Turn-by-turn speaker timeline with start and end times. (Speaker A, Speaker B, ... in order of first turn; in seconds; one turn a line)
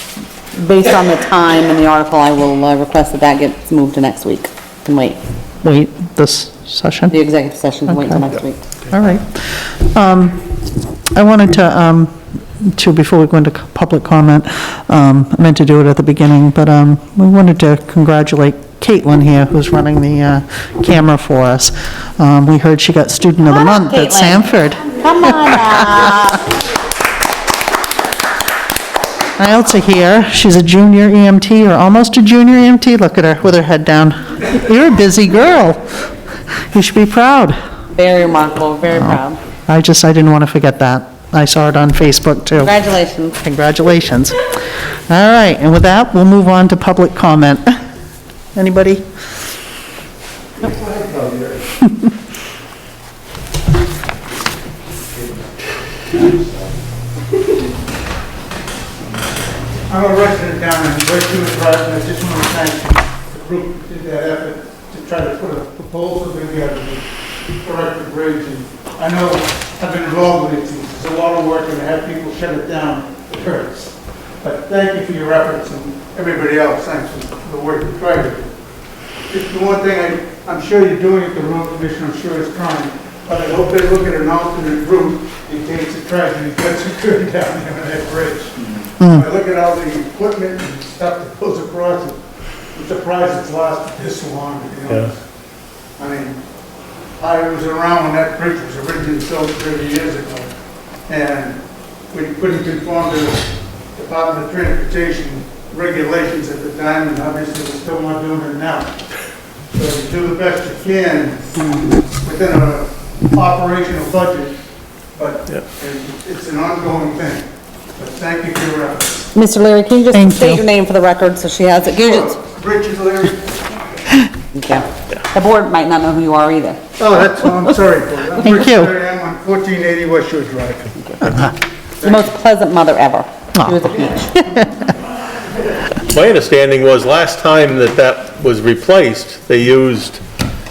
Speaker A: 0.5-5.2
Speaker B: 5.6-7.1
Speaker A: 7.1-8.6
Speaker B: 7.9-8.2
Speaker B: 8.9-10.4
Speaker B: 11.1-26.1
Speaker A: 23.4-26.4
Speaker B: 29.4-35.8
Speaker B: 36.7-37.5
Speaker A: 37.9-39.4
Speaker B: 39.7-42.8
Speaker A: 42.6-43.4
Speaker B: 43.4-44.4
Speaker B: 45.1-47.8
Speaker B: 48.5-49.0
Speaker C: 59.9-67.0
Speaker C: 67.6-78.5
Speaker C: 79.3-92.2
Speaker B: 89.0-89.2
Speaker C: 92.7-95.1
Speaker C: 96.0-96.4
Speaker C: 97.2-100.5
Speaker C: 101.1-101.6
Speaker C: 102.1-103.4
Speaker C: 103.9-108.9
Speaker C: 109.7-111.5
Speaker C: 112.2-114.5
Speaker C: 115.1-119.3
Speaker A: 119.3-122.4
Speaker B: 120.1-120.6
Speaker C: 122.0-123.5
Speaker A: 124.5-126.8
Speaker C: 127.0-131.0
Speaker B: 128.4-128.9
Speaker B: 131.2-131.5
Speaker A: 131.2-131.5
Speaker C: 132.0-132.3
Speaker A: 132.0-134.5
Speaker B: 133.6-133.8
Speaker B: 134.3-134.9
Speaker D: 136.0-140.2